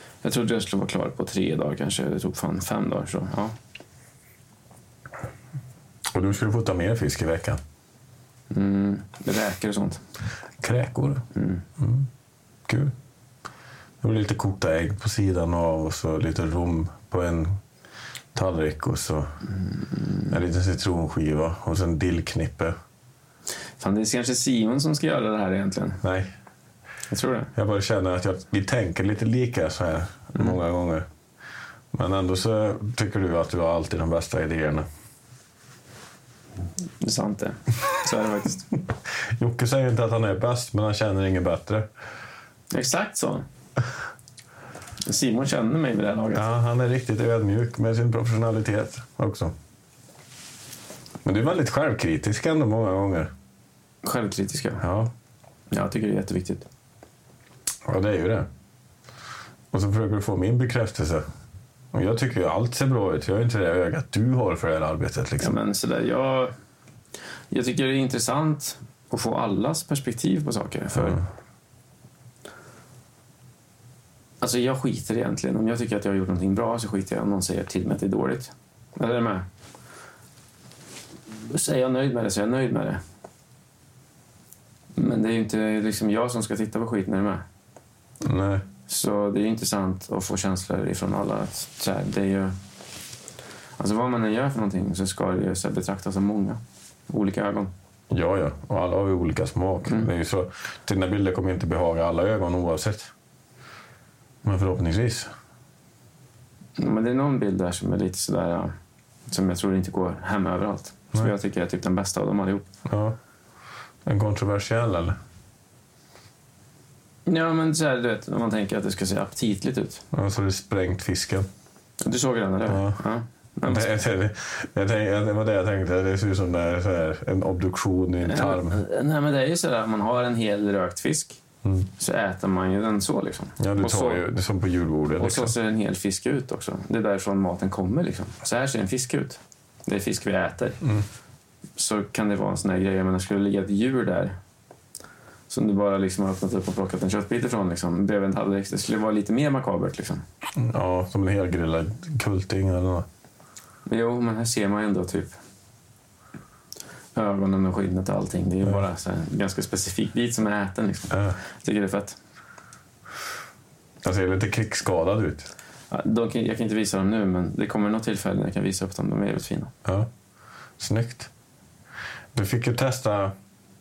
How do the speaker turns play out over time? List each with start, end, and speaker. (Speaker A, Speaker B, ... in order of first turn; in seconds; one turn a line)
Speaker A: 0.2-3.5
Speaker B: 6.1-7.6
Speaker A: 8.5-10.0
Speaker B: 10.6-11.2
Speaker A: 11.3-11.6
Speaker B: 11.8-12.1
Speaker B: 12.7-12.9
Speaker B: 14.0-17.6
Speaker B: 18.3-19.3
Speaker B: 20.3-22.7
Speaker A: 23.8-26.0
Speaker B: 26.0-26.3
Speaker A: 27.1-27.5
Speaker B: 27.5-31.1
Speaker B: 31.9-34.9
Speaker A: 37.0-38.7
Speaker B: 39.4-41.9
Speaker A: 42.7-43.5
Speaker A: 45.0-46.5
Speaker B: 46.3-49.5
Speaker B: 51.2-53.3
Speaker A: 54.0-54.8
Speaker B: 54.8-55.1
Speaker A: 55.7-56.7
Speaker B: 57.9-58.5
Speaker B: 59.7-61.2
Speaker B: 61.9-65.6
Speaker A: 65.4-66.5
Speaker A: 67.5-71.2
Speaker B: 70.9-71.2
Speaker A: 74.4-79.5
Speaker A: 81.5-83.0
Speaker A: 85.0-87.4
Speaker B: 88.2-88.6
Speaker A: 88.9-92.5
Speaker A: 93.8-97.7
Speaker B: 98.1-103.1
Speaker B: 104.4-105.3
Speaker A: 106.8-108.7
Speaker A: 109.3-112.7
Speaker B: 112.8-113.2
Speaker B: 114.0-115.2
Speaker A: 117.2-120.0
Speaker B: 120.1-121.5
Speaker A: 122.0-123.9
Speaker B: 122.7-123.0
Speaker B: 123.7-128.8
Speaker A: 128.2-131.4
Speaker A: 132.0-134.2
Speaker B: 133.6-135.5
Speaker A: 135.2-140.8
Speaker A: 141.8-144.3
Speaker A: 145.5-150.2
Speaker B: 150.6-153.1
Speaker A: 153.9-155.3
Speaker A: 157.1-162.2
Speaker B: 161.1-161.4
Speaker B: 164.0-165.5
Speaker A: 165.9-169.7
Speaker B: 170.8-171.3
Speaker B: 172.3-173.3